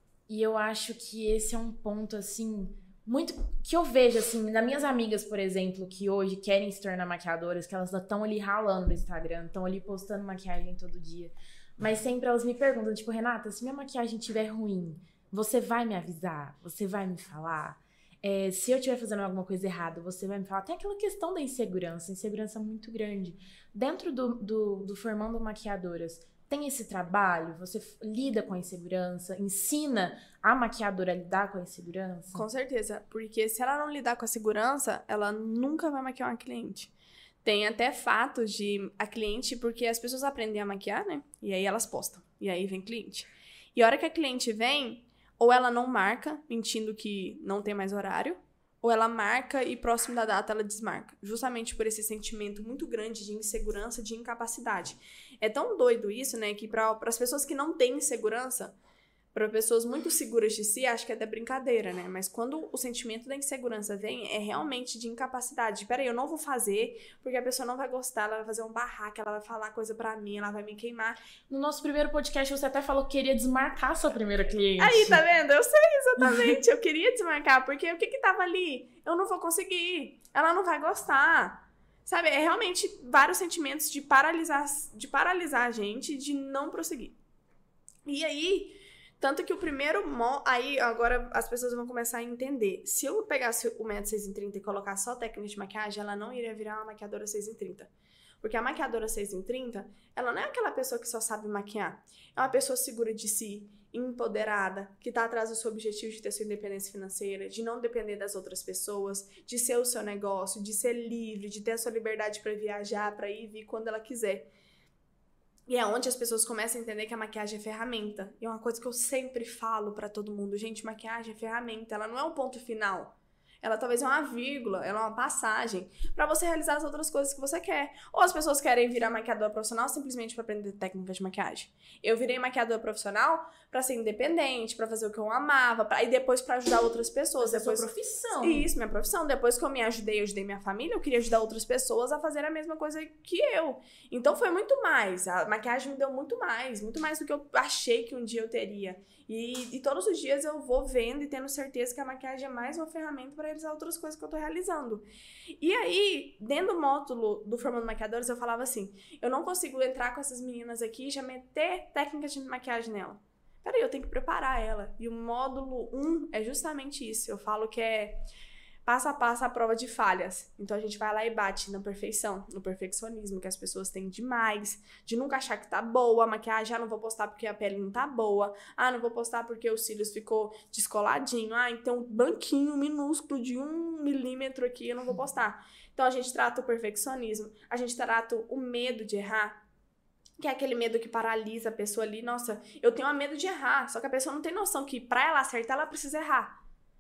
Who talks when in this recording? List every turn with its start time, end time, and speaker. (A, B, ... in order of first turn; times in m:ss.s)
0:00.3-0:32.4 A
0:32.3-0:36.9 B
0:37.4-0:58.8 B
0:59.3-1:11.2 B
1:11.5-1:15.2 A
1:14.8-1:27.2 B
1:16.2-1:16.5 A
1:28.1-1:37.9 B
1:38.4-1:54.5 B
1:55.7-2:17.9 B
2:17.4-2:18.7 A
2:18.4-2:35.1 B
2:35.6-2:48.2 B
2:48.9-3:09.6 B
3:10.4-3:16.6 B